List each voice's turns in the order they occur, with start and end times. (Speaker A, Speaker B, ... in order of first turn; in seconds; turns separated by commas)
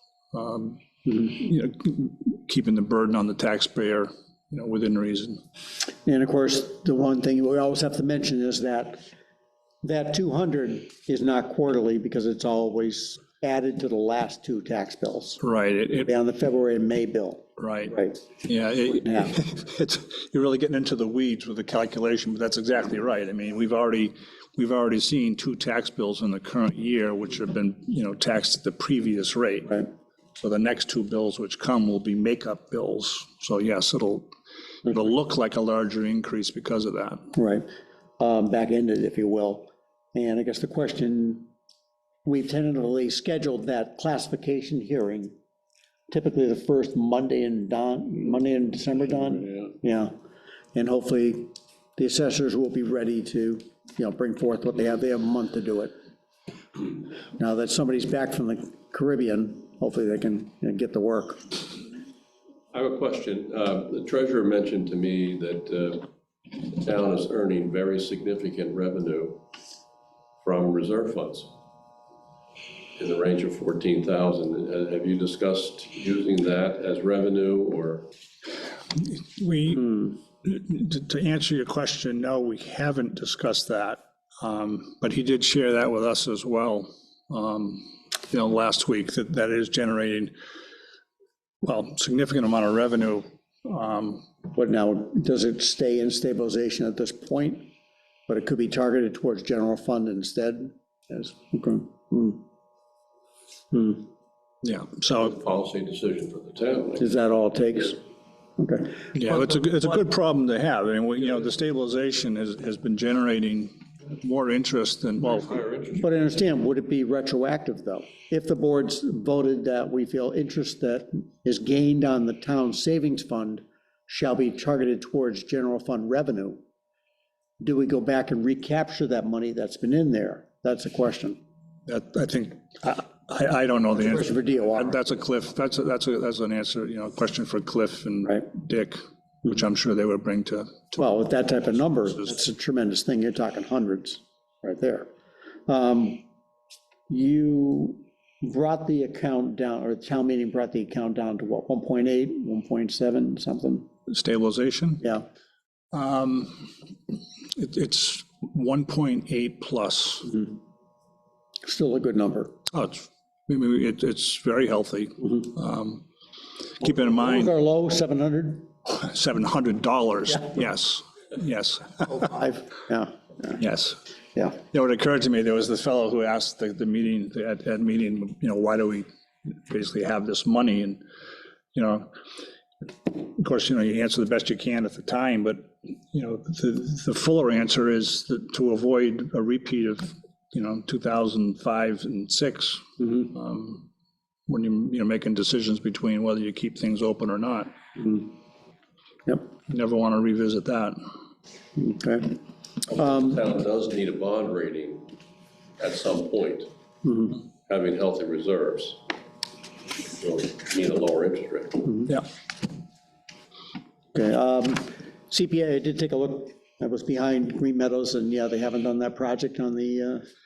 Speaker A: 0.3-5.4, Speaker B: 6.0-9.0, Speaker B: 9.8-15.4, Speaker A: 15.4-16.1, Speaker B: 16.0-18.2, Speaker A: 17.6-29.8, Speaker B: 19.0-19.4, Speaker A: 30.4-34.3, Speaker A: 34.8-37.2, Speaker B: 37.3-37.7, Speaker B: 38.2-41.5, Speaker B: 42.2-45.3, Speaker B: 46.1-50.1, Speaker B: 50.7-55.9, Speaker B: 57.4-61.5, Speaker C: 62.7-69.4, Speaker C: 70.4-71.5, Speaker C: 73.0-78.0, Speaker A: 78.9-90.3, Speaker A: 91.6-94.3, Speaker B: 94.5-97.6, Speaker B: 98.3-102.4, Speaker B: 103.7-104.0, Speaker A: 104.6-105.3, Speaker C: 105.2-107.0, Speaker B: 107.0-108.0, Speaker B: 108.6-109.1, Speaker A: 109.1-115.5, Speaker C: 115.2-116.1, Speaker B: 116.0-126.6, Speaker B: 127.6-131.4, Speaker A: 131.9-141.1, Speaker B: 134.0-135.0, Speaker B: 141.0-145.1, Speaker B: 145.7-146.2, Speaker B: 147.1-153.9, Speaker A: 154.1-155.0, Speaker A: 155.9-156.7, Speaker A: 157.5-160.5, Speaker B: 161.6-162.5, Speaker A: 162.7-166.0, Speaker A: 166.8-167.5, Speaker B: 166.8-168.7, Speaker A: 168.9-172.1, Speaker B: 172.0-173.6, Speaker A: 173.6-174.0, Speaker A: 174.5-181.0, Speaker A: 181.7-182.1, Speaker A: 183.1-193.9, Speaker A: 194.5-197.7, Speaker B: 197.9-198.2, Speaker A: 199.7-201.0, Speaker B: 201.8-202.4, Speaker C: 202.9-205.1, Speaker B: 203.0-203.4, Speaker C: 205.8-206.7, Speaker B: 207.0-207.4, Speaker C: 207.7-209.0, Speaker C: 210.2-211.9, Speaker B: 214.1-220.2